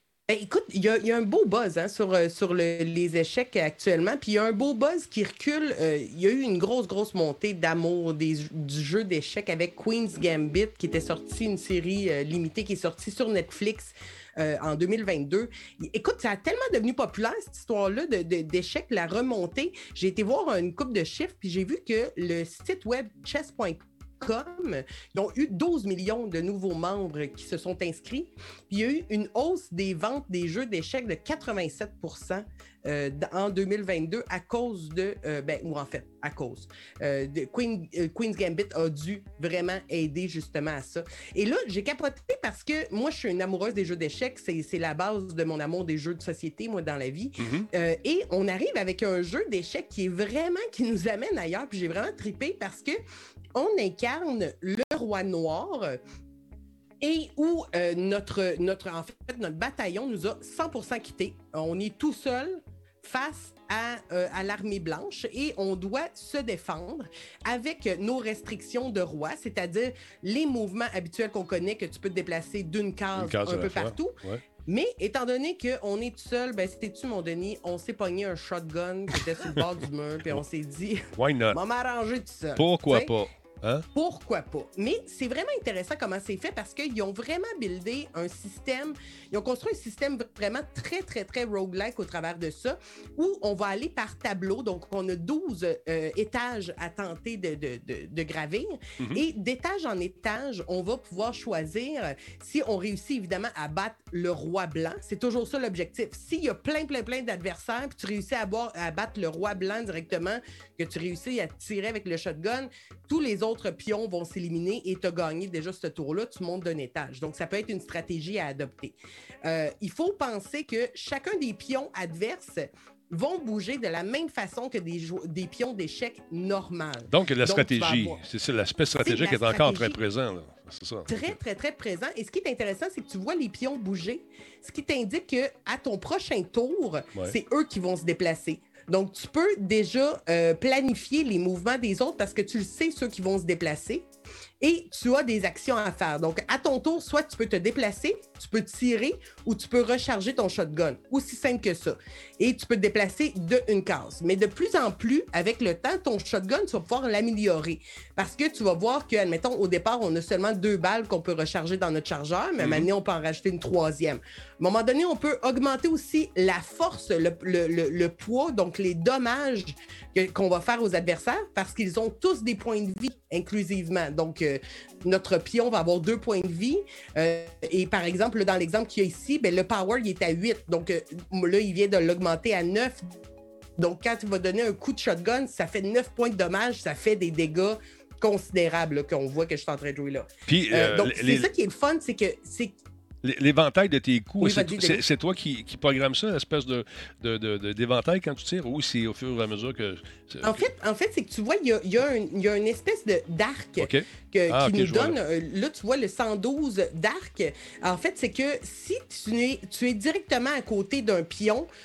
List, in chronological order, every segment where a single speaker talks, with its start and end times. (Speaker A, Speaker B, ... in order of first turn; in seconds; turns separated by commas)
Speaker A: 0.3-53.0, Speaker B: 47.4-47.7, Speaker A: 53.5-56.0, Speaker A: 57.0-83.1, Speaker B: 73.2-74.4, Speaker B: 81.2-81.6, Speaker B: 82.6-83.9, Speaker A: 84.0-128.2, Speaker B: 99.0-99.2, Speaker B: 127.1-131.4, Speaker A: 129.0-130.0, Speaker A: 131.1-144.1, Speaker A: 144.6-183.1, Speaker B: 162.6-162.9, Speaker A: 183.8-192.8, Speaker B: 190.5-191.5, Speaker B: 193.2-200.7, Speaker A: 194.4-195.0, Speaker A: 200.4-211.7, Speaker B: 203.8-205.2